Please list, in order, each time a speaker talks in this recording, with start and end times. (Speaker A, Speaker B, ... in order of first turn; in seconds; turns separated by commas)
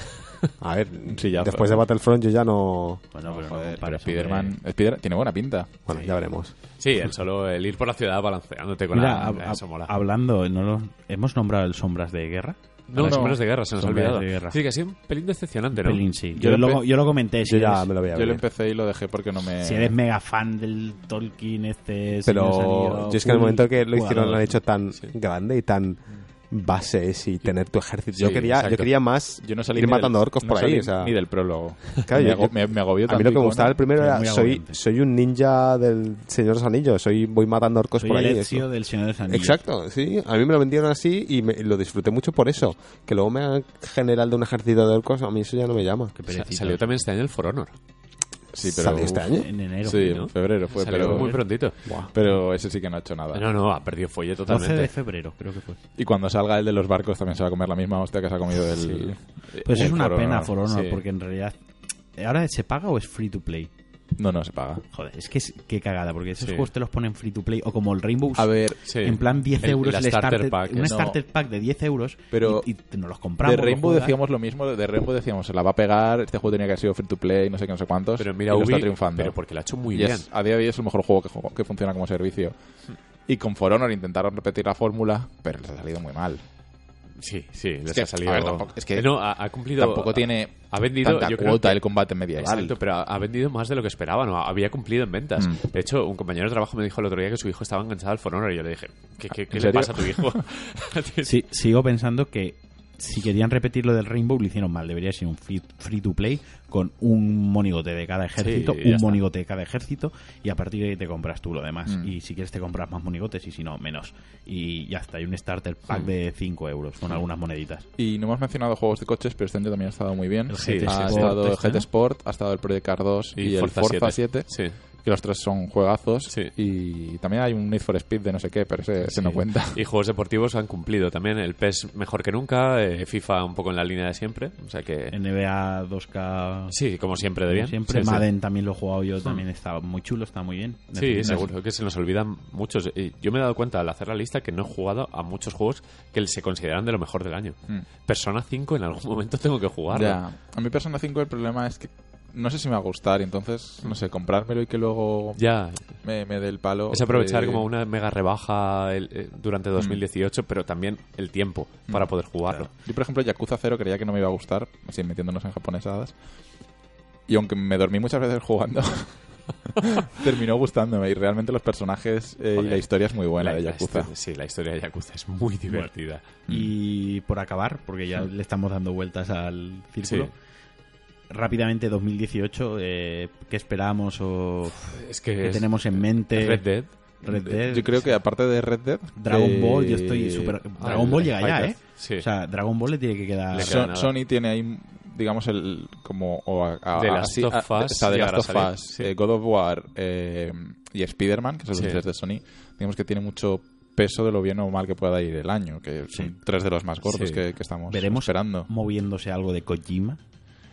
Speaker A: 0.6-3.0, Speaker B: 1.1-1.9, Speaker C: 3.1-4.6, Speaker B: 3.2-5.7, Speaker A: 5.9-6.5, Speaker D: 6.8-9.9, Speaker C: 8.9-14.6, Speaker D: 12.9-16.0, Speaker B: 12.9-13.4, Speaker C: 15.8-17.9, Speaker B: 16.3-16.8, Speaker A: 17.4-18.4, Speaker B: 18.1-20.0, Speaker C: 19.6-24.6, Speaker A: 22.2-31.1, Speaker B: 28.2-28.6, Speaker D: 28.2-28.9, Speaker B: 29.4-33.8, Speaker A: 32.0-38.7, Speaker C: 33.9-34.8, Speaker C: 38.0-39.6, Speaker A: 39.3-46.1, Speaker C: 46.2-47.0, Speaker D: 46.3-47.7, Speaker B: 48.5-53.5, Speaker A: 48.6-49.5, Speaker C: 49.3-50.3, Speaker D: 49.9-51.8, Speaker A: 51.9-52.1, Speaker D: 53.3-54.9, Speaker C: 54.5-55.8, Speaker B: 56.0-60.5, Speaker D: 58.8-59.1, Speaker C: 59.6-61.6, Speaker D: 60.7-61.0, Speaker C: 62.2-63.7, Speaker B: 64.2-64.8, Speaker C: 64.9-74.2, Speaker D: 66.4-66.7, Speaker B: 68.3-68.8, Speaker D: 68.8-71.0, Speaker B: 70.8-71.2, Speaker B: 72.3-72.7, Speaker B: 73.4-82.5, Speaker D: 78.2-80.3, Speaker B: 83.3-86.4, Speaker D: 87.2-91.8, Speaker B: 87.9-92.7, Speaker D: 92.4-101.4, Speaker B: 99.5-100.4, Speaker C: 101.2-117.8, Speaker D: 108.4-109.2, Speaker B: 111.9-112.1, Speaker B: 118.0-129.8, Speaker C: 120.5-121.9, Speaker D: 120.5-121.4, Speaker D: 123.4-124.8, Speaker D: 129.0-135.2, Speaker C: 135.1-136.8, Speaker D: 136.7-138.3, Speaker C: 137.5-141.5, Speaker D: 140.9-150.2, Speaker B: 141.2-141.4, Speaker B: 149.9-157.7, Speaker D: 155.4-156.0, Speaker D: 156.9-162.7, Speaker B: 162.7-166.2, Speaker B: 167.3-174.1, Speaker D: 172.6-176.3, Speaker B: 176.5-176.7, Speaker C: 176.5-180.3, Speaker D: 180.0-180.3, Speaker C: 181.3-188.2, Speaker D: 184.9-186.9, Speaker B: 187.2-191.2, Speaker C: 189.2-193.9, Speaker D: 190.8-192.3, Speaker D: 193.5-194.2, Speaker B: 193.6-208.7, Speaker D: 196.9-199.1, Speaker D: 201.7-202.0, Speaker D: 207.0-207.4, Speaker C: 207.9-210.2